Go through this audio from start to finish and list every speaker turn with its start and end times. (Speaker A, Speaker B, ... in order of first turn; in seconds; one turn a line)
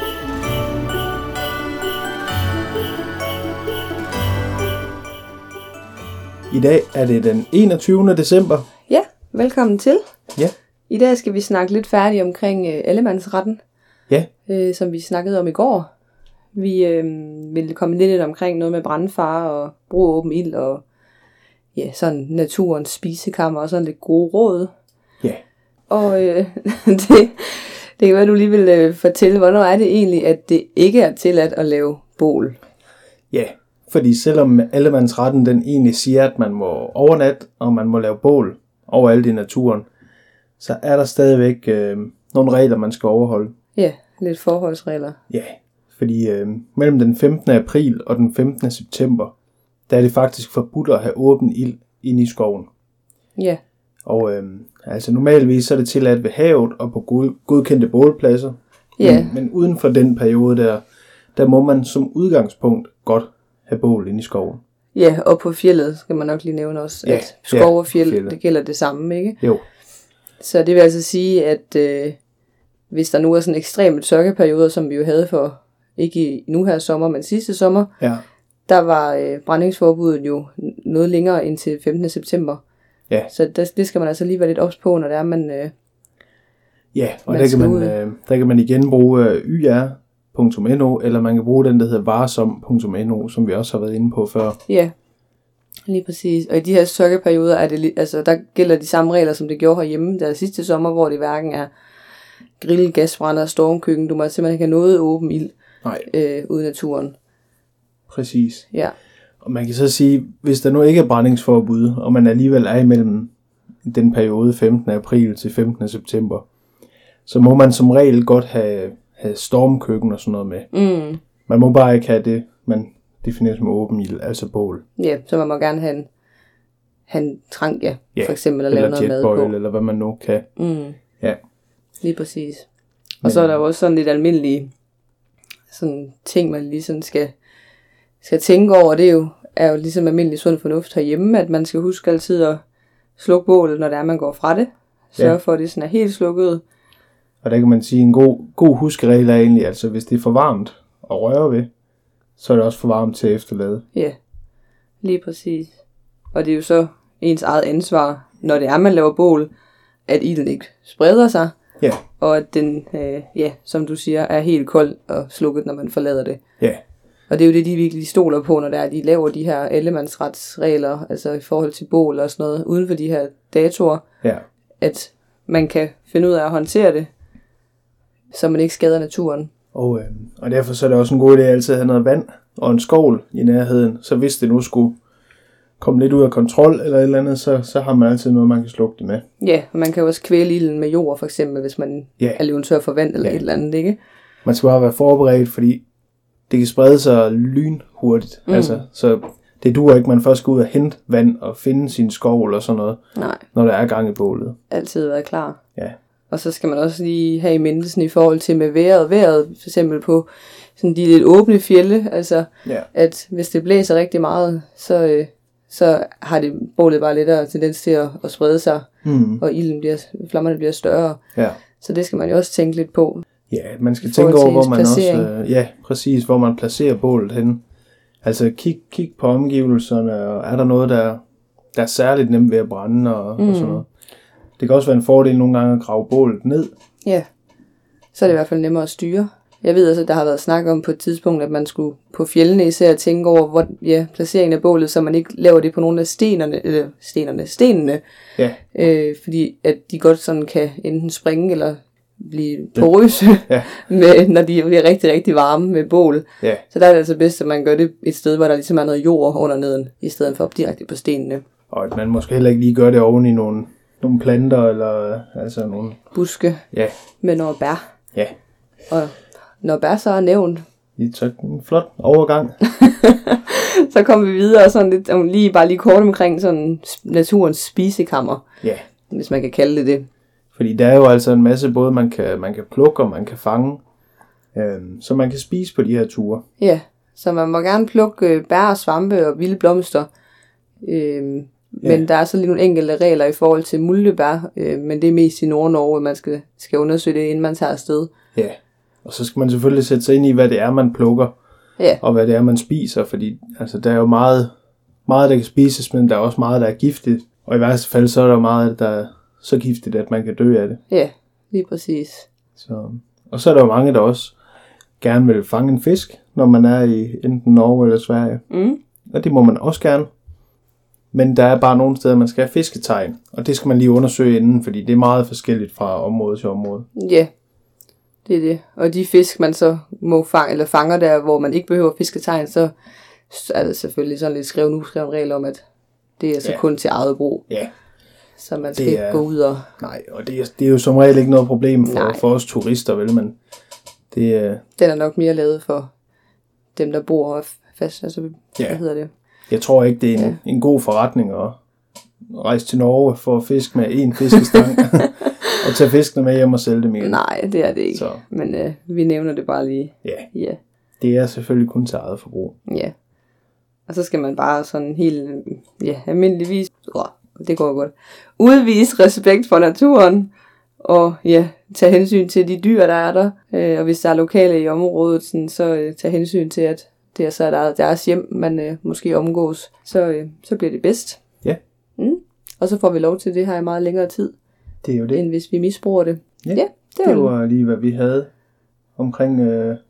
Speaker A: 6.5-8.7
Speaker B: 8.9-10.0
Speaker B: 10.9-13.6
Speaker B: 14.5-15.9
Speaker B: 16.6-20.8
Speaker B: 21.8-24.7
Speaker B: 25.9-32.6
Speaker A: 33.3-39.9
Speaker A: 40.6-43.5
Speaker B: 43.8-45.2
Speaker A: 45.3-49.3
Speaker A: 49.9-52.7
Speaker B: 53.4-53.6
Speaker A: 54.0-60.8
Speaker B: 59.0-59.3
Speaker A: 61.4-64.6
Speaker B: 64.9-69.4
Speaker A: 67.0-68.4
Speaker B: 70.4-72.2
Speaker B: 72.9-77.9
Speaker B: 78.7-82.6
Speaker B: 83.3-85.7
Speaker A: 86.9-94.6
Speaker B: 87.3-88.0
Speaker B: 94.7-94.9
Speaker B: 95.9-101.7
Speaker B: 102.6-107.2
Speaker A: 108.1-108.7
Speaker A: 109.4-113.3
Speaker A: 113.8-116.5
Speaker A: 117.3-120.7
Speaker B: 120.7-121.2
Speaker A: 121.5-124.8
Speaker B: 125.0-126.1
Speaker B: 127.1-129.5
Speaker A: 128.2-130.5
Speaker B: 130.6-131.0
Speaker B: 132.0-132.7
Speaker B: 133.2-134.7
Speaker A: 133.2-133.6
Speaker B: 135.7-137.3
Speaker B: 138.2-142.6
Speaker B: 143.2-146.6
Speaker A: 147.4-151.7
Speaker A: 152.4-153.8
Speaker B: 155.0-155.8
Speaker B: 156.3-159.5
Speaker B: 160.1-161.5
Speaker B: 162.2-166.4
Speaker B: 167.3-174.0
Speaker B: 174.8-177.1
Speaker B: 178.3-179.5
Speaker A: 179.7-185.0
Speaker A: 185.8-189.2
Speaker B: 189.4-194.0
Speaker A: 194.4-195.8
Speaker A: 196.5-203.0
Speaker B: 198.5-198.8
Speaker B: 203.2-203.4
Speaker A: 203.5-204.6
Speaker B: 204.7-205.6
Speaker B: 206.3-218.9
Speaker A: 219.0-219.4
Speaker B: 219.4-221.2
Speaker A: 221.4-221.6
Speaker B: 221.8-223.2
Speaker A: 223.5-227.6
Speaker B: 224.0-225.3
Speaker A: 228.2-231.2
Speaker A: 231.7-233.9
Speaker B: 233.4-233.8
Speaker A: 234.6-236.7
Speaker B: 238.2-248.0
Speaker B: 248.7-261.4
Speaker A: 261.7-266.0
Speaker B: 266.1-266.6
Speaker B: 267.2-267.8
Speaker B: 268.9-270.6
Speaker A: 271.0-272.6
Speaker B: 272.6-278.4
Speaker B: 279.1-280.1
Speaker A: 280.6-283.8
Speaker A: 284.6-286.4
Speaker B: 286.6-290.1
Speaker B: 290.8-298.1
Speaker A: 298.4-301.3
Speaker A: 302.0-304.5
Speaker A: 305.1-310.8
Speaker B: 310.9-312.3
Speaker A: 312.6-314.4
Speaker A: 315.0-318.4
Speaker B: 318.5-318.8
Speaker A: 319.1-320.1
Speaker A: 321.1-326.9
Speaker B: 326.9-327.3
Speaker B: 328.3-332.7
Speaker B: 333.3-335.6
Speaker B: 336.2-337.4
Speaker B: 338.4-339.7
Speaker A: 338.7-339.2
Speaker A: 339.8-343.4
Speaker B: 341.9-342.2
Speaker A: 344.1-344.6
Speaker B: 344.8-345.9
Speaker B: 346.8-349.1
Speaker A: 349.5-351.6
Speaker A: 352.3-357.2
Speaker B: 354.3-355.6
Speaker B: 357.0-360.6
Speaker A: 357.9-358.2
Speaker A: 361.0-362.6
Speaker B: 362.7-362.9
Speaker B: 363.9-381.2
Speaker B: 382.0-384.3
Speaker A: 384.8-385.2
Speaker B: 385.1-387.3
Speaker A: 386.4-388.3
Speaker A: 389.0-389.8